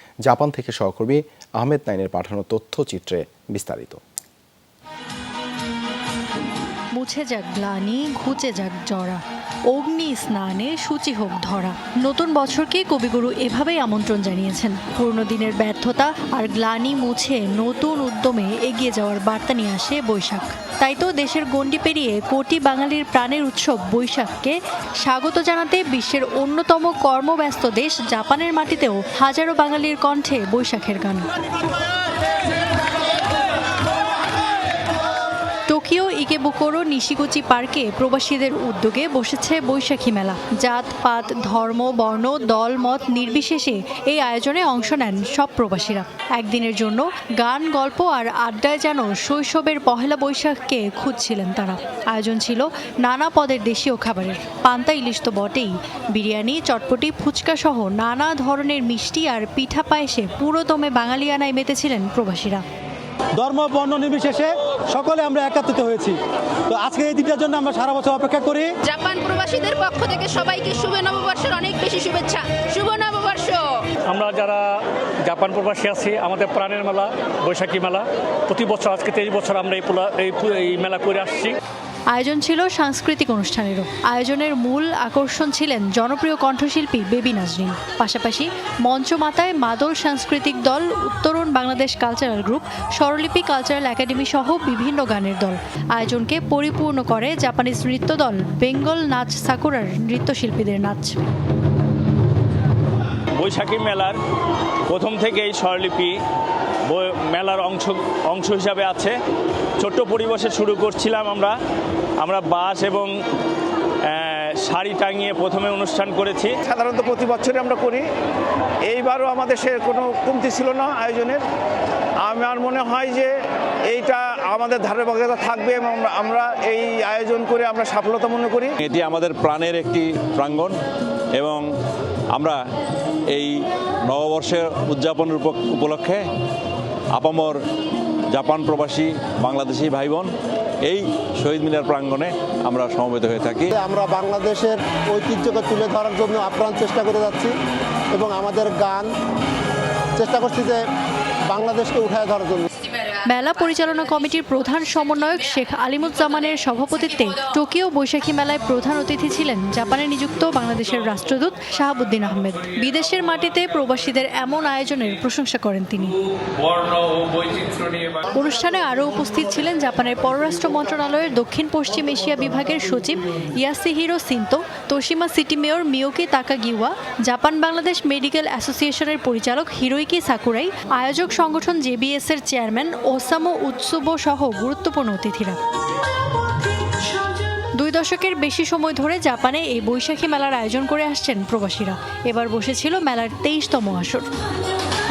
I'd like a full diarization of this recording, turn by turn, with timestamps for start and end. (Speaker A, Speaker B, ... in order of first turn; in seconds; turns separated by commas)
Speaker A: 0.2-4.0, Speaker B: 6.9-31.3, Speaker B: 35.7-62.6, Speaker C: 63.4-66.2, Speaker C: 66.7-68.7, Speaker D: 68.9-73.7, Speaker E: 74.1-81.6, Speaker B: 82.1-101.2, Speaker F: 103.4-104.2, Speaker F: 104.9-106.2, Speaker F: 106.9-109.2, Speaker F: 109.8-111.6, Speaker F: 112.2-113.1, Speaker F: 114.1-116.6, Speaker G: 116.6-118.1, Speaker G: 118.8-121.5, Speaker G: 122.2-123.4, Speaker G: 123.9-128.8, Speaker H: 128.8-130.8, Speaker H: 131.3-131.7, Speaker H: 132.3-132.6, Speaker H: 133.3-133.5, Speaker H: 134.1-136.2, Speaker H: 137.1-137.6, Speaker H: 138.3-140.3, Speaker H: 140.8-143.8, Speaker I: 143.9-147.6, Speaker I: 148.2-149.1, Speaker I: 150.2-150.8, Speaker I: 151.5-152.6, Speaker D: 152.9-153.2, Speaker B: 153.2-166.2, Speaker D: 153.9-155.5, Speaker D: 156.3-156.7, Speaker F: 167.4-167.8, Speaker B: 168.3-185.6, Speaker B: 187.7-194.3